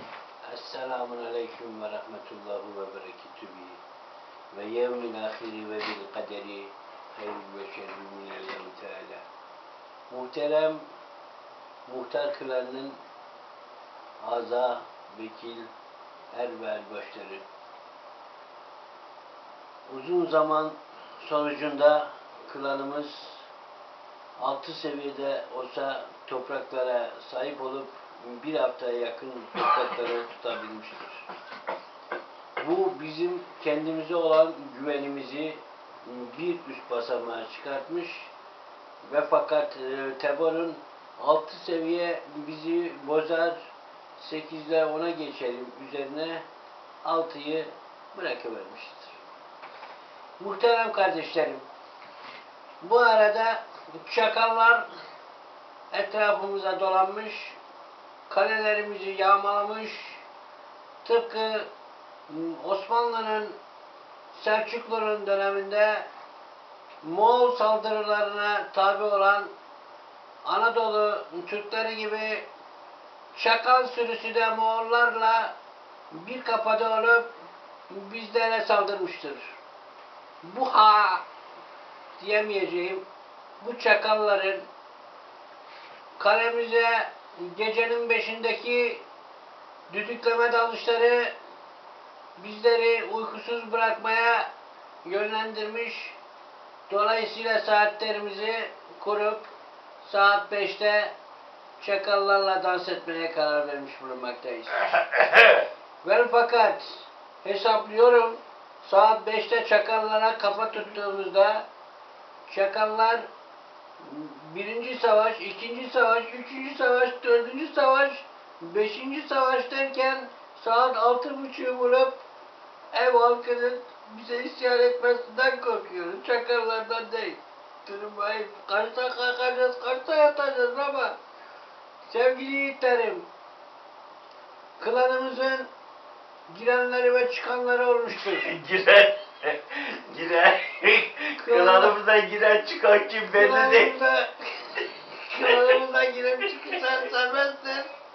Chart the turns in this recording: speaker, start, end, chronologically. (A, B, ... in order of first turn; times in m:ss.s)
0:00.4-0:03.8 A
0:04.5-0:09.2 A
0:10.1-0:10.9 A
0:11.9-0:13.0 A
0:14.2-0:15.7 A
0:16.3-0:17.5 A
0:19.9-0:23.5 A
0:24.4-0:31.2 A
0:32.6-0:38.3 A
0:39.0-0:43.6 A
0:44.2-0:46.5 A
0:47.0-0:49.2 A
0:50.4-0:51.7 A
0:52.8-0:54.9 A
0:55.9-0:57.6 A
0:58.3-1:00.2 A
1:01.0-1:01.7 A
1:02.3-1:03.6 A
1:04.3-1:06.1 A
1:07.0-1:09.5 A
1:10.4-1:12.5 A
1:13.4-1:15.6 A
1:16.1-1:17.3 A
1:17.9-1:19.6 A
1:20.4-1:21.3 A
1:22.2-1:23.0 A
1:23.6-1:24.7 A
1:26.2-1:29.0 A
1:29.9-1:31.4 A
1:32.4-1:34.5 A
1:35.0-1:36.2 A
1:36.9-1:39.5 A
1:40.0-1:41.2 A
1:41.8-1:44.9 A
1:44.8-1:45.7 B
1:46.0-1:51.7 A
1:52.5-1:53.3 A
1:54.0-2:02.2 A
2:02.9-2:11.2 A
2:12.1-2:13.3 A
2:14.8-2:15.7 A
2:16.5-2:18.6 A
2:18.3-2:24.0 B
2:21.4-2:22.0 A
2:23.3-2:27.9 A
2:25.4-2:25.8 B